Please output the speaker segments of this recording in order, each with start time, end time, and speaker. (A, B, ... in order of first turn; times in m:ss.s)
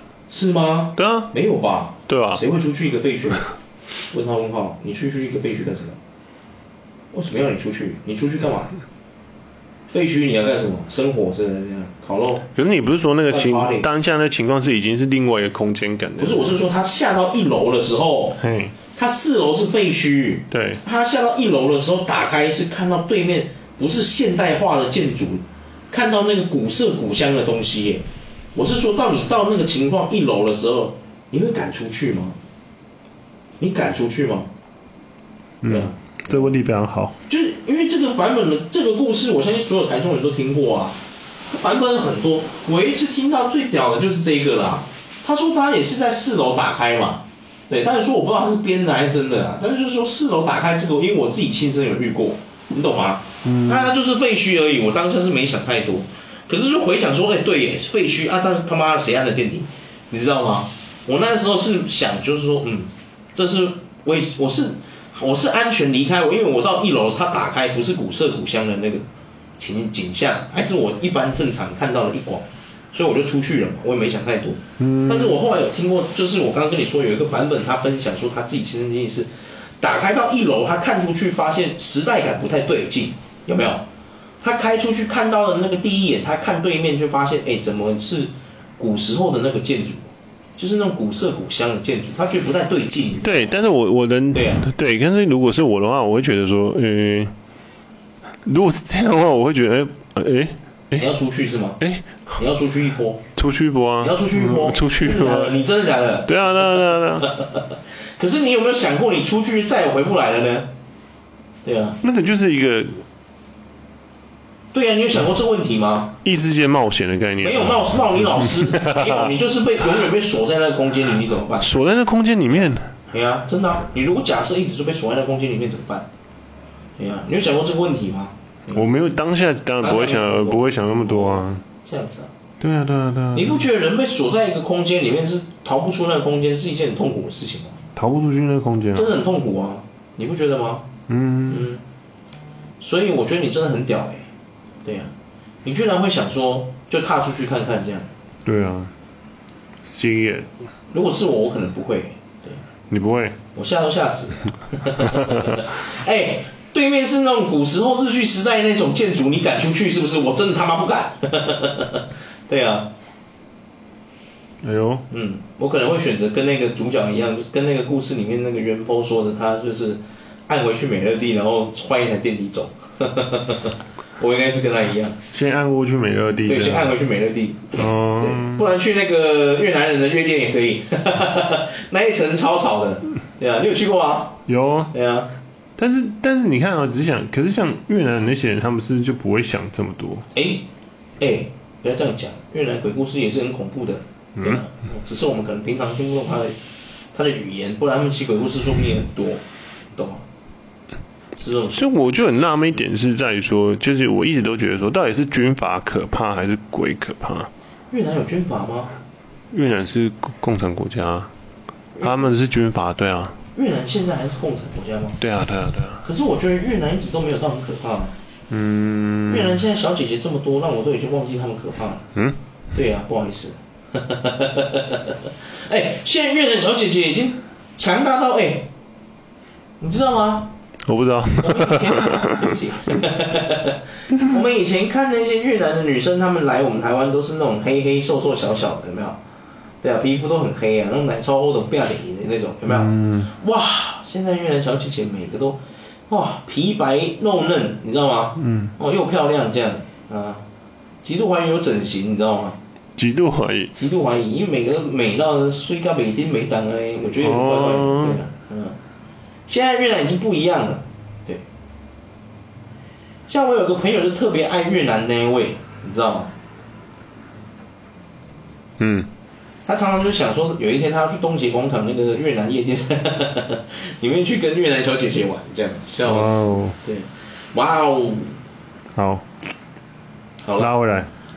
0:00.3-0:03.5 A
0:01.0-0:01.3 B
0:02.1-0:02.4 B
0:04.1-0:06.0 A
0:07.1-0:08.7 A
0:09.9-0:12.4 A
0:12.5-0:16.6 B
0:13.3-0:13.8 A
0:16.2-0:18.4 A
0:18.4-0:18.7 B
0:18.9-0:28.0 A
0:20.5-0:20.8 B
0:28.5-0:32.4 A
0:33.6-0:34.5 A
0:35.6-0:37.1 B
0:35.7-0:36.6 A
0:37.3-0:41.0 A
0:41.5-1:09.0 A
0:53.4-0:53.9 B
1:09.6-1:19.3 A
1:14.8-1:15.4 B
1:19.8-1:23.8 A
1:24.4-1:33.6 A
1:33.2-1:37.3 B
1:34.3-1:34.6 A
1:38.4-1:41.1 B
1:41.0-1:41.8 A
1:41.8-1:42.4 B
1:42.3-1:43.2 A
1:43.4-1:45.6 B
1:44.0-1:50.7 A
1:46.2-1:47.3 B
1:51.6-1:52.0 A
1:52.0-1:53.0 B
1:54.7-1:56.2 A
1:56.2-1:59.4 B
1:57.4-2:01.7 A
2:01.6-2:02.9 B
2:03.1-2:06.1 A
2:07.0-2:08.8 A
2:08.7-2:11.6 B
2:09.8-2:12.3 A
2:12.6-2:13.6 B
2:13.3-2:17.8 A
2:18.0-2:19.1 B
2:18.9-2:20.9 A
2:21.1-2:21.6 B
2:21.5-2:21.8 A
2:22.8-2:24.3 A
2:24.8-2:25.1 A
2:25.6-2:28.1 A
2:28.4-2:28.9 B
2:29.8-2:30.5 B
2:30.9-2:32.6 A
2:32.9-2:33.4 B
2:33.5-2:42.9 A
2:35.0-2:35.6 B
2:44.6-2:45.0 B
2:45.1-2:55.2 A
2:55.3-2:56.9 B
2:56.5-3:04.4 A
2:57.7-2:58.6 B
3:04.5-3:04.9 B
3:04.9-3:05.3 A
3:05.8-3:10.3 B
3:10.3-3:10.6 A
3:11.2-3:16.5 A
3:17.1-3:19.4 A
3:19.9-3:20.2 A
3:21.3-3:21.9 A
3:21.7-3:27.5 B
3:27.9-3:28.9 A
3:29.5-3:31.3 B
3:31.9-3:32.3 A
3:32.0-3:33.4 B
3:33.5-3:35.2 A
3:35.2-3:36.0 B
3:36.0-3:38.1 A
3:38.5-3:39.6 B
3:39.3-3:42.0 A
3:42.7-3:48.7 A
3:49.8-3:50.5 A
3:50.8-3:52.5 B
3:51.4-3:59.2 A
3:59.8-4:10.4 A
4:02.7-4:03.3 B
4:08.4-4:08.7 B
4:11.0-4:12.6 A
4:13.0-4:13.7 B
4:13.7-4:18.8 A
4:17.2-4:18.2 B
4:19.5-4:21.4 A
4:23.3-4:26.3 A
4:28.8-4:29.1 B
4:29.6-4:38.4 A
4:36.0-4:36.8 B
4:38.9-4:39.2 B
4:40.4-4:40.7 A
4:40.6-4:41.1 B